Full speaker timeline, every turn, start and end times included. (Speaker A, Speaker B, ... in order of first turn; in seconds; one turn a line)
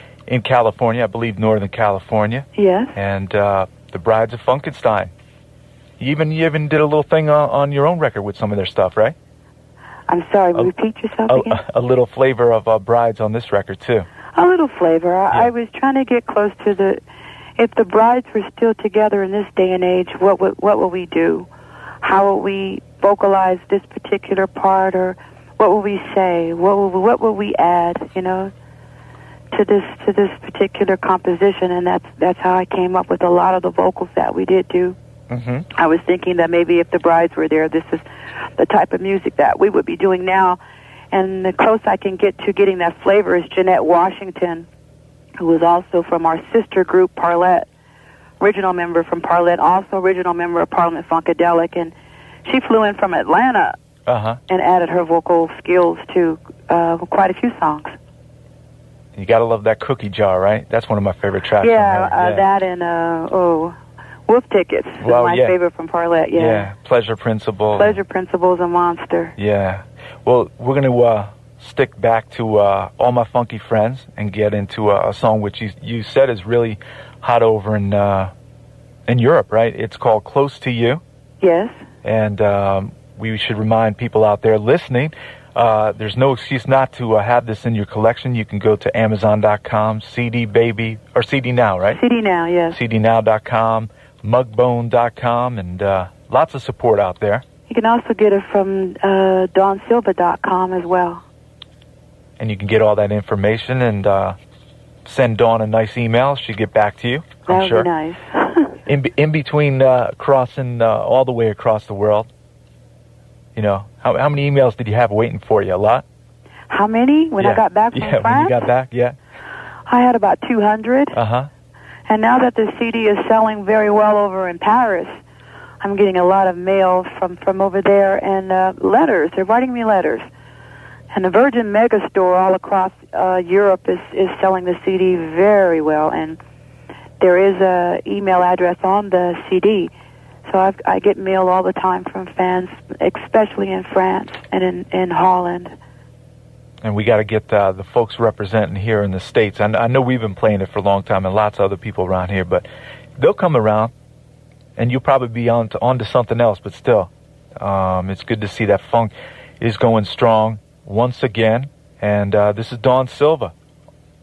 Speaker A: 0.3-5.1
Speaker B: 2.5-2.9
Speaker A: 6.0-9.2
Speaker B: 10.1-11.6
Speaker A: 11.3-14.1
Speaker B: 14.3-17.0
Speaker B: 17.6-21.5
Speaker B: 22.0-28.5
Speaker B: 29.5-35.0
Speaker A: 35.3-35.7
Speaker B: 35.7-38.0
Speaker B: 38.6-40.6
Speaker B: 41.1-44.7
Speaker B: 45.4-47.7
Speaker B: 48.4-51.9
Speaker B: 52.4-53.8
Speaker A: 54.1-54.4
Speaker B: 54.5-57.9
Speaker A: 59.1-62.4
Speaker B: 61.6-66.7
Speaker A: 65.0-65.5
Speaker A: 66.3-68.0
Speaker B: 67.8-69.3
Speaker A: 69.4-78.3
Speaker A: 79.1-81.0
Speaker B: 81.4-81.7
Speaker A: 82.0-92.0
Speaker B: 91.9-92.8
Speaker A: 92.7-97.4
Speaker B: 97.7-101.2
Speaker A: 102.4-104.3
Speaker A: 105.0-107.9
Speaker B: 107.5-108.8
Speaker A: 108.8-112.3
Speaker A: 113.5-116.0
Speaker B: 116.7-118.6
Speaker A: 117.4-119.2
Speaker B: 119.9-121.1
Speaker A: 121.1-121.5
Speaker B: 122.1-125.2
Speaker B: 125.8-130.3
Speaker B: 131.1-136.4
Speaker B: 137.2-139.9
Speaker B: 140.4-145.7
Speaker A: 146.8-152.7
Speaker A: 153.2-153.9
Speaker A: 154.8-163.5